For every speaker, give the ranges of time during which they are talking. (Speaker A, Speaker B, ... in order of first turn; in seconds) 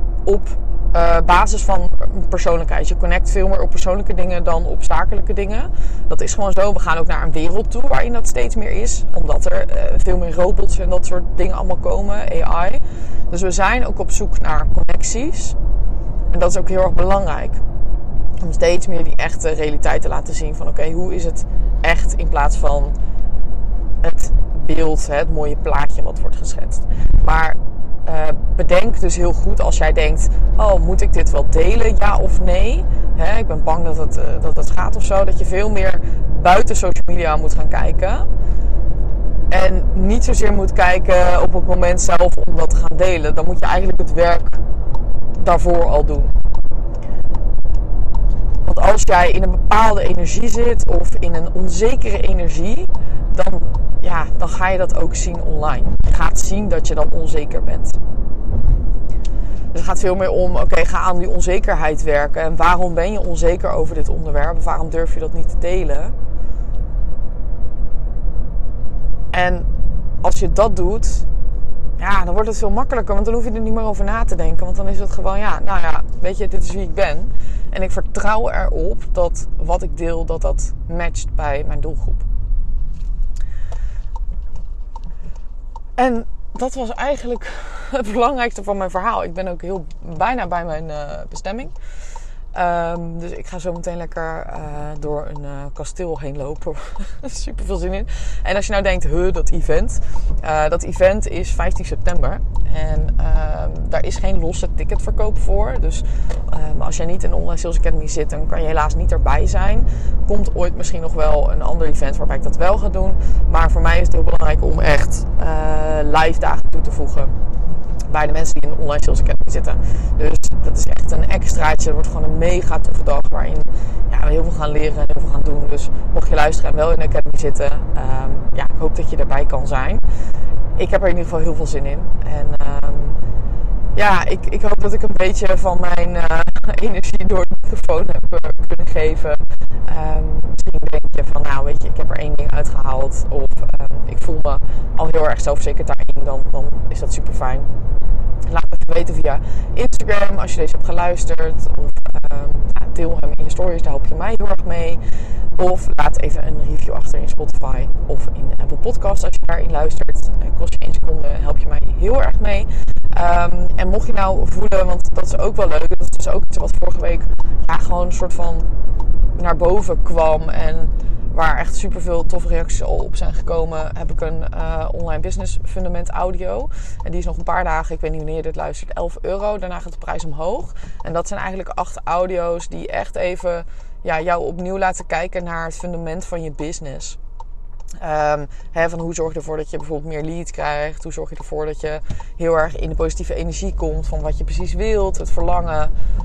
Speaker A: 0.2-15.6, 16.3-17.6, 18.4-22.9, 24.0-38.3, 39.5-44.6, 45.3-46.3, 48.6-58.0, 59.7-66.1, 69.3-69.7, 70.2-71.3, 72.0-82.2, 86.0-91.7, 92.5-117.3, 118.1-130.0, 130.8-133.2, 133.9-147.7, 148.5-155.0, 155.6-168.7, 169.3-187.2, 188.0-195.9